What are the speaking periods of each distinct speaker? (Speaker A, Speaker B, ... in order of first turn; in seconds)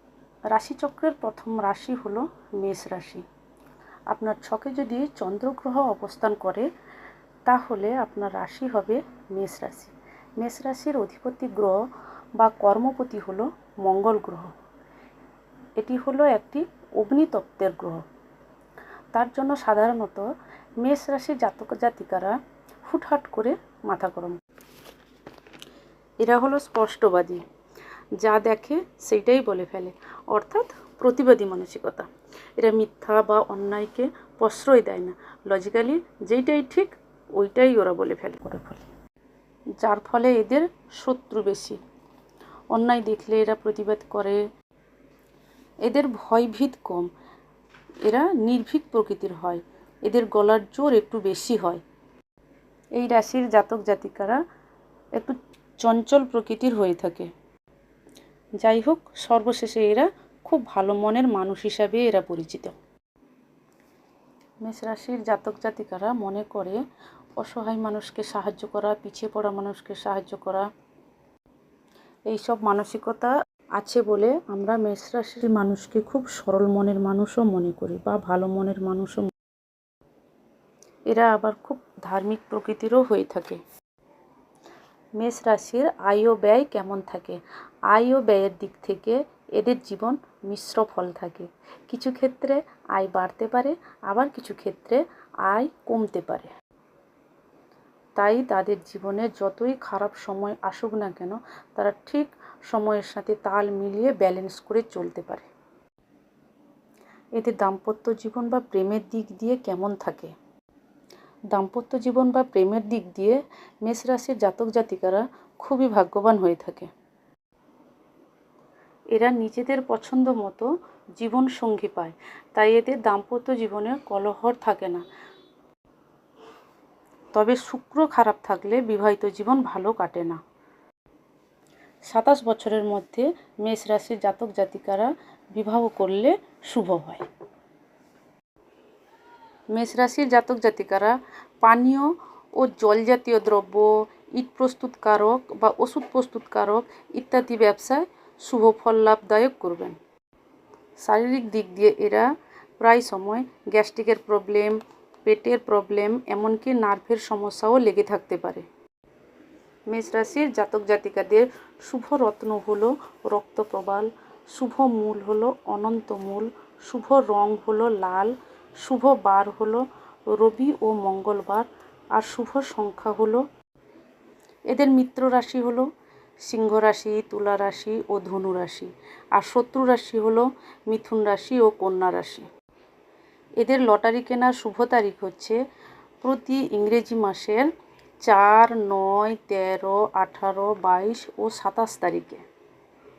Speaker A: 0.5-3.2, 4.1-6.7, 7.5-11.8, 12.4-14.5, 15.8-18.0, 19.1-20.3, 20.8-24.4, 26.2-27.4, 28.2-38.9, 39.8-41.8, 42.7-44.4, 45.8-47.1, 48.0-51.8, 52.9-54.4, 55.1-57.3, 58.6-62.8, 64.6-66.8, 67.4-70.7, 72.3-79.3, 81.1-83.6, 85.2-96.5, 98.2-105.5, 107.3-110.3, 111.5-116.9, 119.1-125.0, 127.3-130.4, 132.1-137.3, 139.7-149.9, 151.0-152.3, 152.8-158.7, 159.9-173.4, 174.7-175.9, 176.4-182.5, 183.6-185.6, 186.2-187.7, 188.2-192.4